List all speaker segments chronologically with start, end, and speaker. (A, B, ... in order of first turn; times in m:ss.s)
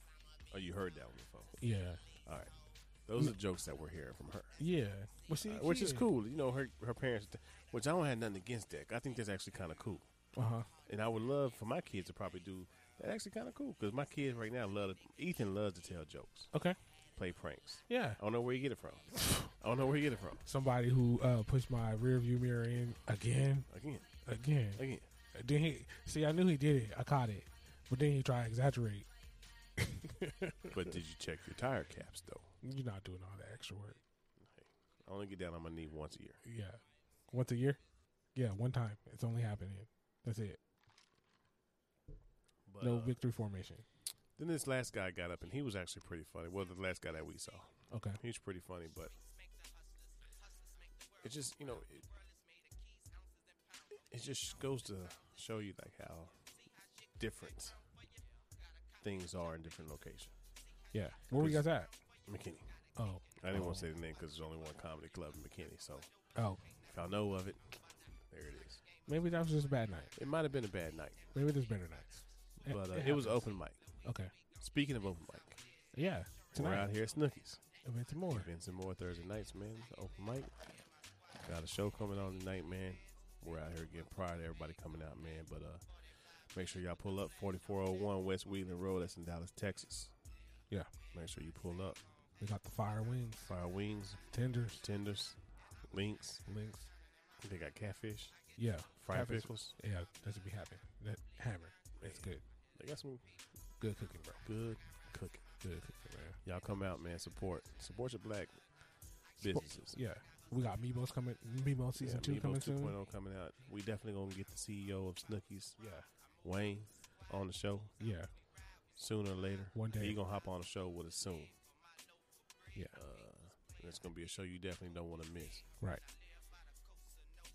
0:00.5-0:01.6 A
0:01.6-0:02.0 B
0:02.2-0:02.5 A
0:03.0-0:04.6 A
0:04.6-0:06.1 B
0:05.4-0:10.1 A
0:10.3-0:10.7 B
0:10.8-0:16.5 A
0:16.5-0:16.8 B
0:17.2-0:20.4 A
0:17.9-0:18.2 B
0:19.1-0:19.5 B
0:20.4-0:23.7 B
0:23.7-0:24.1 A
0:24.2-0:29.1 B
0:24.8-0:25.1 A
0:29.8-0:30.8 B
0:30.7-0:32.5 A
0:32.6-0:34.0 B
0:34.4-0:36.4 A
0:36.4-0:37.8 B
0:38.3-0:40.6 B
0:42.6-0:43.2 A
0:42.8-0:43.8 B
0:44.4-0:49.1 A
0:47.9-0:48.2 B
0:51.2-0:52.1 A
0:54.1-0:56.4 A
0:57.2-0:57.8 A
0:59.0-1:00.3 A
1:00.9-1:02.0 B
1:01.4-1:01.6 A
1:02.2-1:02.7 A
1:03.0-1:03.8 B
1:03.4-1:06.1 A
1:06.3-1:06.6 B
1:06.8-1:08.8 A
1:09.0-1:10.1 B
1:10.1-1:11.3 A
1:11.3-1:13.4 B
1:12.6-1:14.0 A
1:14.0-1:14.3 B
1:14.6-1:15.6 A
1:15.9-1:16.9 B
1:16.5-1:17.6 A
1:17.8-1:18.5 B
1:18.3-1:20.6 A
1:21.4-1:25.9 A
1:26.5-1:30.1 A
1:31.1-1:32.0 A
1:32.4-1:33.5 B
1:33.4-1:34.2 A
1:34.3-1:34.8 B
1:34.8-1:36.4 A
1:36.4-1:36.9 B
1:37.4-1:38.3 A
1:38.6-1:42.4 B
1:39.0-1:39.8 A
1:42.0-1:43.3 A
1:43.8-1:44.4 B
1:44.4-1:45.4 A
1:45.6-1:46.4 B
1:46.4-1:48.6 A
1:49.4-1:50.0 A
1:49.4-1:53.0 B
1:52.0-1:55.8 A
1:55.8-1:56.0 B
1:56.4-1:57.9 A
1:58.0-1:58.3 B
1:59.0-2:01.5 A
1:59.7-2:00.2 B
2:02.9-2:05.7 A